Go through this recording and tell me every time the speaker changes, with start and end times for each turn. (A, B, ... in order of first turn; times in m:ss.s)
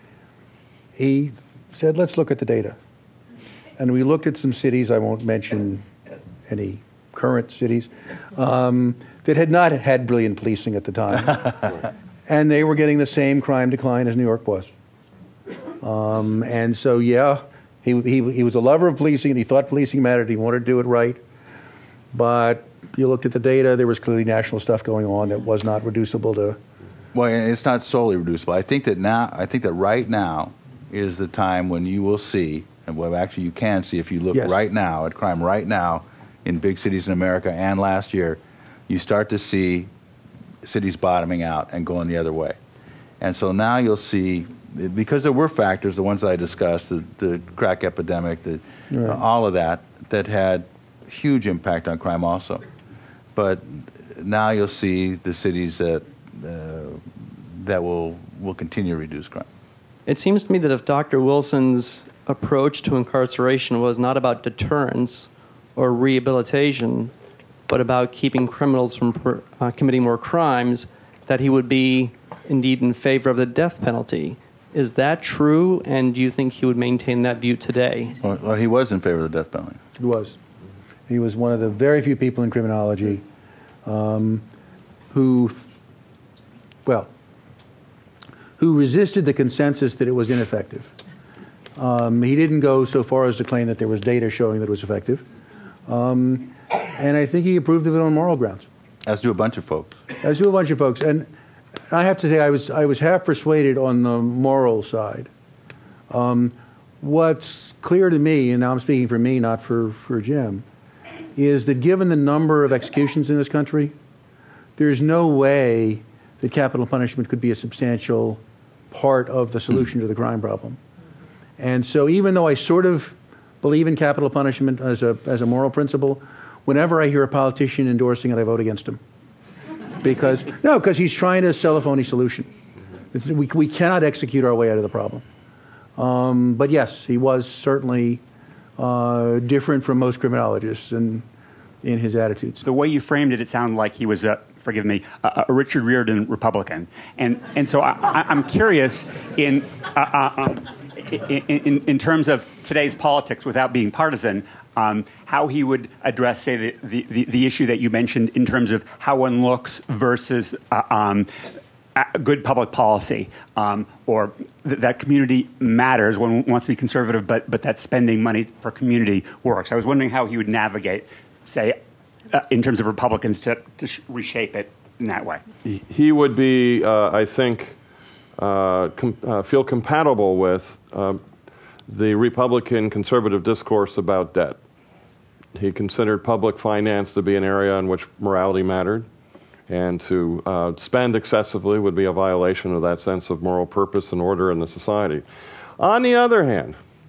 0:01.0-0:02.8 A
0:03.8-0:05.9 A
0:06.5-0:11.7 A
0:12.3-0:14.7 A
0:15.8-0:21.2 A
0:22.1-0:26.6 A
0:27.1-0:39.9 B
0:40.6-0:42.6 B
0:43.2-0:52.6 B
0:48.9-0:49.2 A
0:53.3-0:59.5 B
1:00.0-1:07.1 C
1:07.7-1:18.2 C
1:18.2-1:19.8 B
1:20.0-1:20.4 A
1:21.1-1:23.2 A
1:23.8-1:24.4 A
1:25.1-1:25.7 A
1:28.6-1:30.9 A
1:31.8-1:35.2 A
1:35.8-1:38.6 A
1:39.0-1:40.0 B
1:40.2-1:41.3 A
1:41.9-1:45.3 A
1:46.1-1:50.6 A
1:51.4-1:53.9 A
1:54.8-1:58.4 A
1:58.9-2:00.8 A
2:01.6-2:09.0 A
2:10.0-2:12.5 A
2:13.1-2:15.2 A
2:16.0-2:18.2 A
2:18.8-2:21.2 A
2:21.8-2:22.6 A
2:22.6-2:41.3 D
2:42.0-2:51.8 D
2:52.3-2:55.4 D
2:55.7-2:57.8 E
2:58.4-3:01.2 E
3:01.9-3:04.6 E
3:05.5-3:09.1 E
3:09.7-3:15.2 E
3:15.8-3:16.8 E